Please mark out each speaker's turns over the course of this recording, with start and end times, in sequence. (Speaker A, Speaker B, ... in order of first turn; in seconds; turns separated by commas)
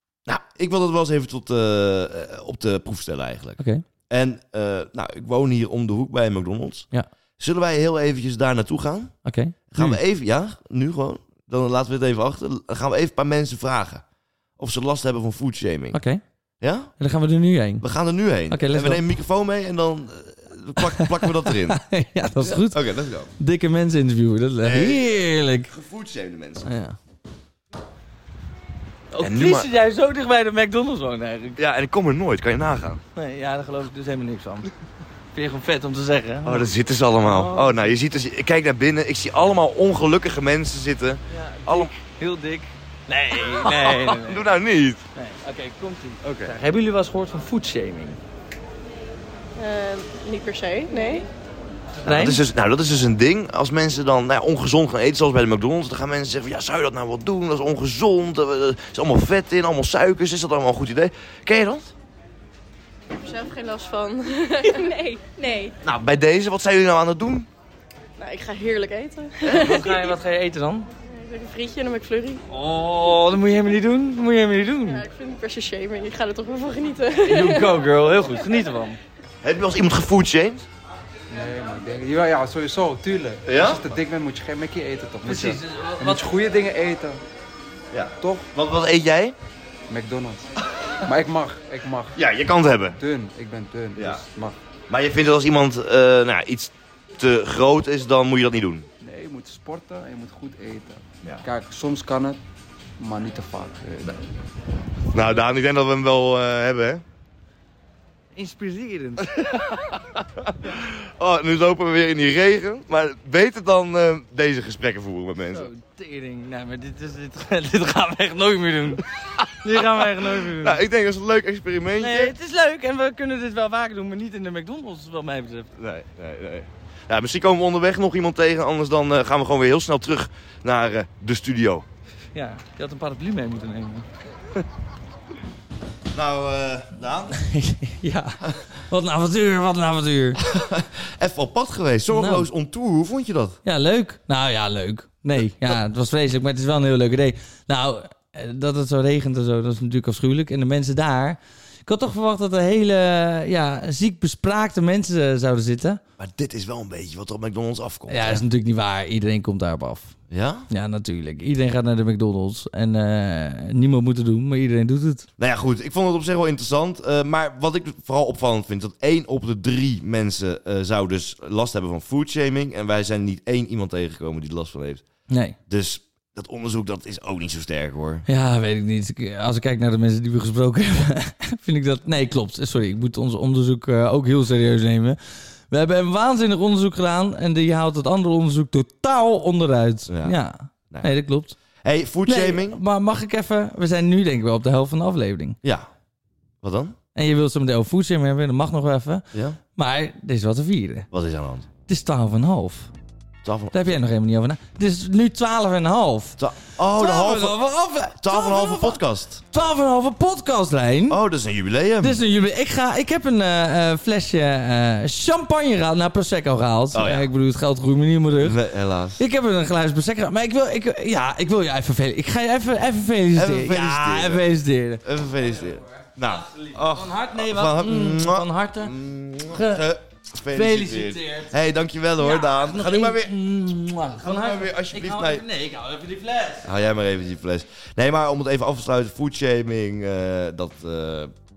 Speaker A: 0.2-9.1, Speaker B: 3.6-3.8, Speaker B: 9.2-10.0, Speaker A: 9.7-14.0, Speaker A: 14.6-16.0, Speaker B: 15.9-16.2, Speaker A: 16.6-16.9, Speaker B: 17.0-17.9, Speaker A: 17.8-21.8, Speaker B: 18.5-19.0, Speaker B: 20.8-25.7, Speaker A: 22.4-23.3, Speaker A: 24.6-26.7, Speaker B: 26.6-27.0, Speaker B: 29.1-31.6, Speaker A: 29.2-29.7, Speaker A: 31.6-33.0, Speaker B: 33.1-34.7, Speaker B: 35.3-36.7, Speaker A: 36.5-41.9, Speaker B: 37.2-38.0, Speaker B: 41.3-44.5, Speaker A: 43.5-45.0, Speaker B: 45.1-48.2, Speaker A: 46.2-46.5, Speaker C: 49.6-51.0, Speaker B: 52.0-52.4, Speaker A: 52.0-61.9, Speaker C: 63.2-65.7, Speaker A: 65.8-67.5, Speaker C: 68.2-70.0, Speaker B: 69.5-70.9, Speaker C: 71.1-72.4, Speaker B: 72.5-75.1, Speaker C: 75.2-77.0, Speaker B: 77.1-79.0, Speaker A: 79.4-80.6, Speaker D: 81.3-87.2, Speaker A: 83.5-83.8, Speaker B: 85.2-86.3, Speaker A: 87.9-89.4, Speaker D: 88.2-88.5, Speaker D: 89.9-90.5, Speaker D: 91.0-92.2, Speaker A: 92.2-93.0, Speaker D: 93.0-94.6, Speaker A: 94.0-94.2, Speaker A: 94.9-98.9, Speaker D: 99.0-102.4, Speaker D: 103.0-104.2, Speaker A: 105.1-107.0, Speaker B: 108.3-109.8, Speaker A: 109.8-115.7, Speaker B: 115.5-120.8, Speaker A: 119.1-122.3, Speaker B: 122.0-125.7, Speaker A: 125.8-131.9, Speaker B: 132.3-134.1, Speaker A: 136.1-137.4, Speaker B: 137.4-140.4, Speaker A: 140.4-143.6, Speaker B: 142.1-142.5, Speaker B: 143.6-156.0, Speaker A: 156.2-158.4, Speaker B: 158.1-160.2, Speaker A: 160.3-160.7, Speaker B: 160.7-165.3, Speaker A: 165.4-175.1, Speaker B: 175.3-175.6, Speaker A: 175.7-178.2, Speaker B: 178.3-191.6, Speaker A: 190.1-190.4, Speaker A: 191.8-192.8, Speaker B: 192.2-195.6, Speaker A: 195.6-195.9, Speaker A: 196.6-197.0, Speaker B: 197.1-201.1, Speaker A: 199.3-199.6, Speaker A: 201.1-201.7, Speaker B: 201.9-202.9, Speaker A: 203.4-203.9, Speaker B: 203.7-211.2, Speaker A: 206.4-207.6, Speaker A: 208.2-209.4, Speaker A: 211.1-212.2, Speaker B: 212.0-218.6, Speaker A: 216.9-217.3, Speaker A: 218.4-219.2, Speaker B: 219.2-228.9, Speaker A: 223.3-224.4, Speaker A: 225.0-233.4, Speaker B: 229.5-229.9, Speaker B: 230.5-231.5, Speaker B: 232.2-236.7, Speaker A: 234.2-235.4, Speaker A: 236.6-241.3